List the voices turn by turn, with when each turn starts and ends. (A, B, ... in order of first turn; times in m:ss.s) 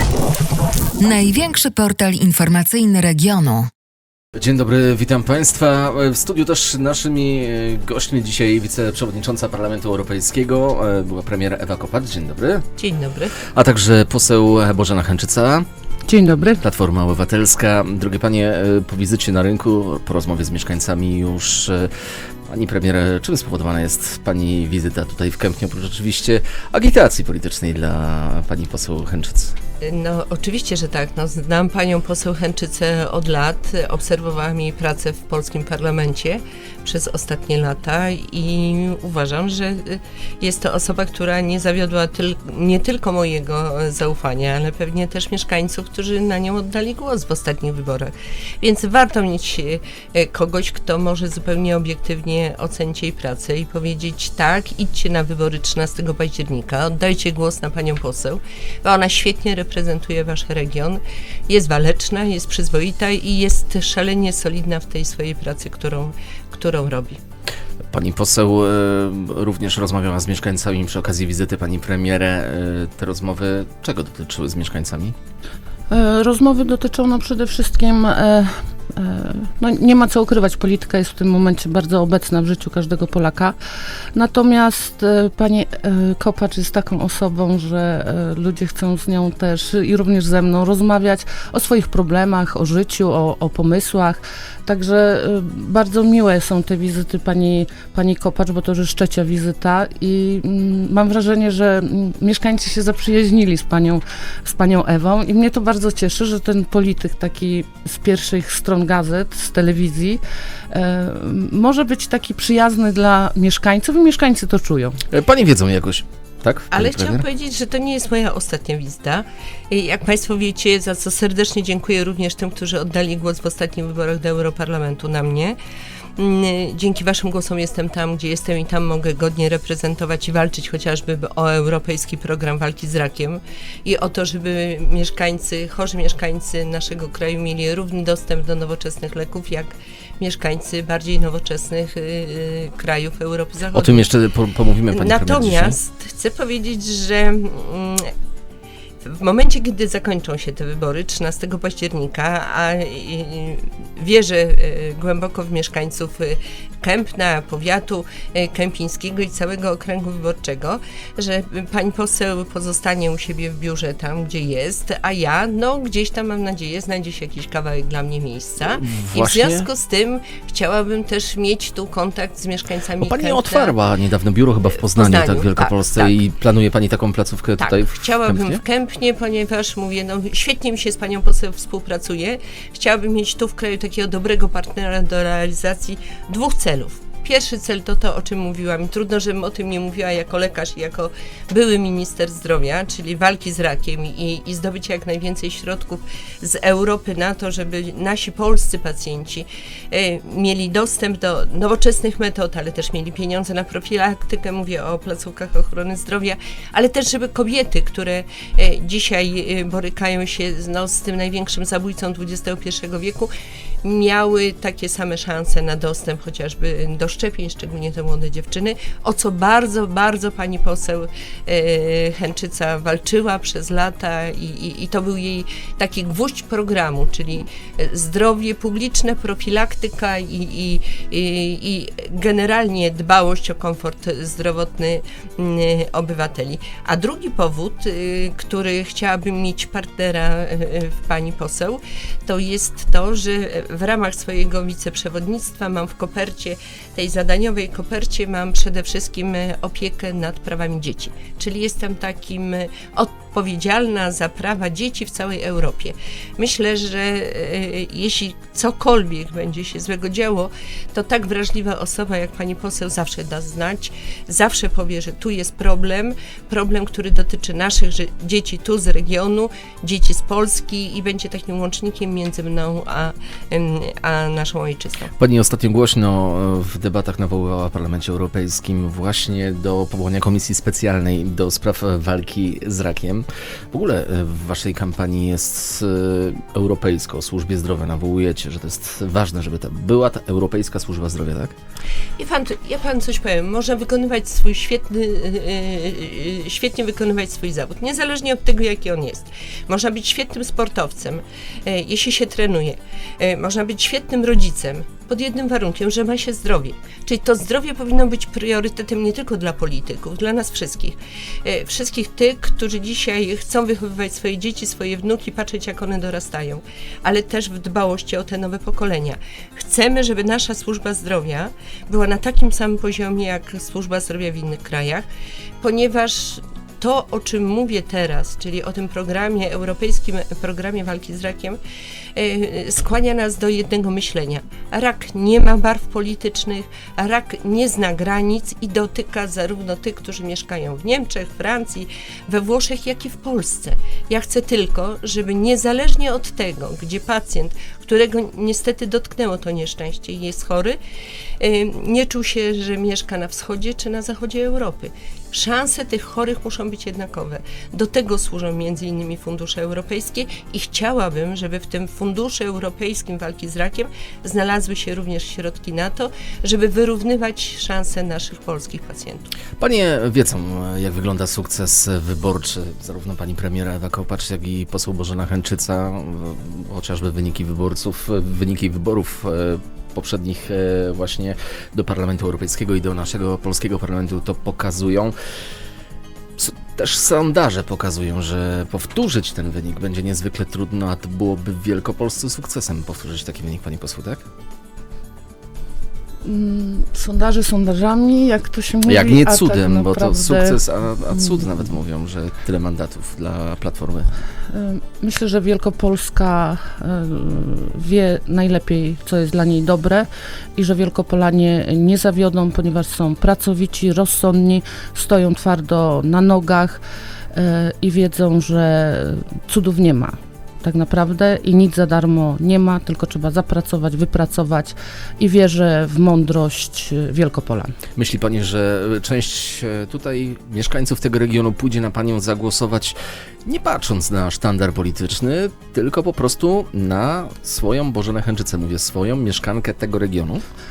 0:01.0-0:03.7 A
0:04.4-0:12.6 B
0:12.8-0:13.4 C
0:13.4-0:15.6 B
0:16.0-0:16.6 D
0:16.6-0:21.9 B
0:22.5-0:29.5 B
0:29.8-1:07.2 C
1:07.9-1:15.1 B
1:15.9-1:23.6 D
1:24.1-1:55.0 D
1:55.1-1:57.2 B
1:56.7-2:05.6 C
2:06.2-2:24.1 C
2:23.7-2:25.8 B
2:24.9-2:28.1 C
2:29.0-2:53.7 C
2:48.6-2:49.7 B
2:53.0-2:58.6 B
2:54.8-2:56.1 C
2:57.6-3:33.3 C
3:33.8-4:35.1 C
4:35.2-4:51.5 B
4:52.2-5:25.0 C
5:25.6-5:31.6 C
5:32.1-5:50.8 C
5:51.4-6:09.3 C
6:09.6-6:25.1 B
6:26.4-6:34.2 B
6:36.2-6:40.6 D
6:38.8-6:44.1 B
6:44.5-6:56.8 D
6:57.3-7:07.7 D
7:08.0-7:20.4 B